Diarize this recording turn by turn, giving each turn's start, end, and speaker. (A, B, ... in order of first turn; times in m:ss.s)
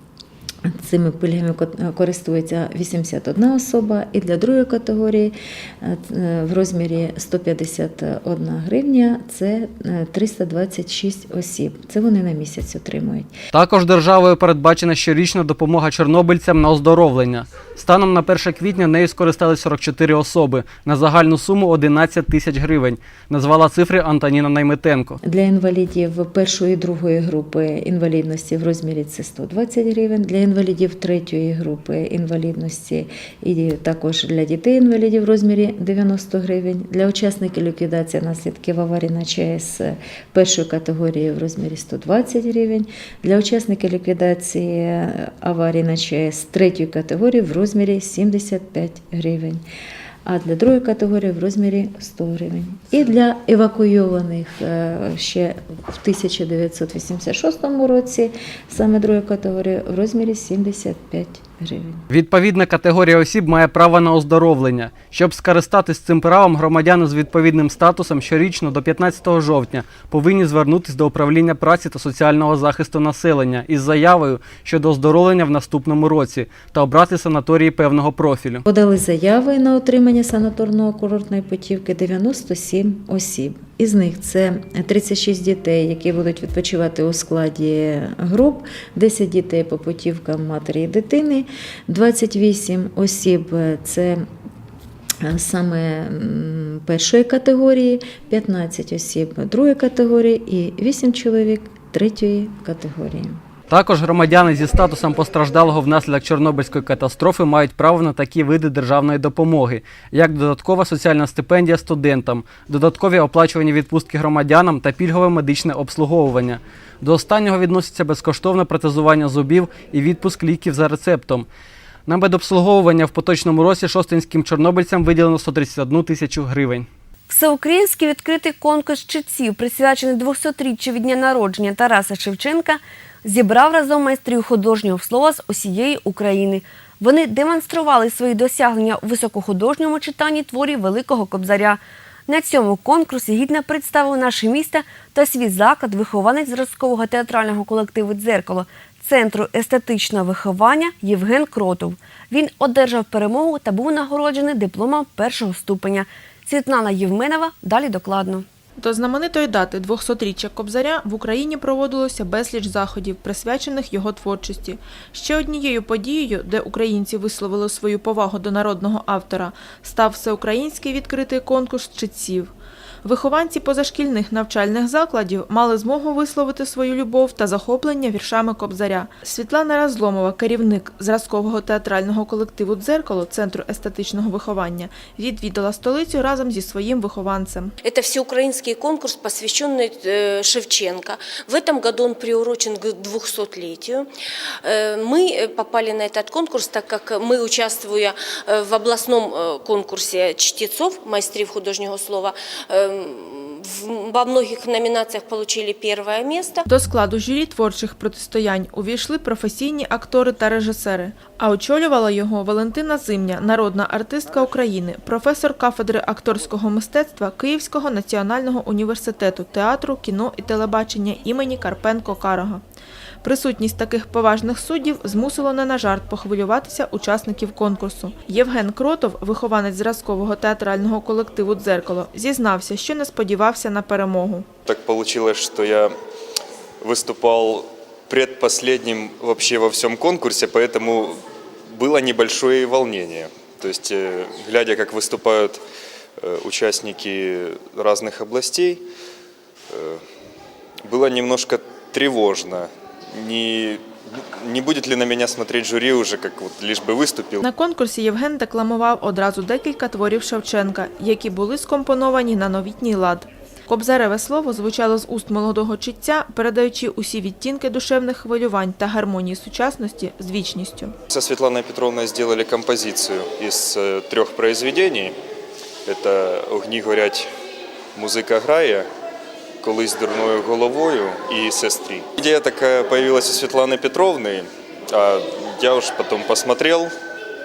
0:00.6-0:13.3 A
0:13.5-0:25.2 B
0:25.2-0:49.6 A
0:50.2-1:02.0 A
1:02.1-1:18.6 B
1:18.6-1:34.2 A
1:35.2-1:43.4 A
1:43.7-2:01.5 B
2:02.1-2:06.9 B
2:07.3-2:38.4 C
2:38.8-2:52.5 D
2:53.0-3:07.7 D
3:07.8-3:14.1 E
3:14.6-3:26.6 E
3:26.7-3:42.6 D
3:43.2-3:54.5 D
3:54.6-3:55.9 F
3:56.8-4:05.6 F
4:06.2-4:08.8 F
4:09.7-4:10.0 F
4:10.8-4:17.4 F
4:17.4-4:30.9 D
4:31.1-4:35.2 F
4:35.8-4:37.3 F
4:37.9-4:38.9 F
4:39.6-4:46.9 F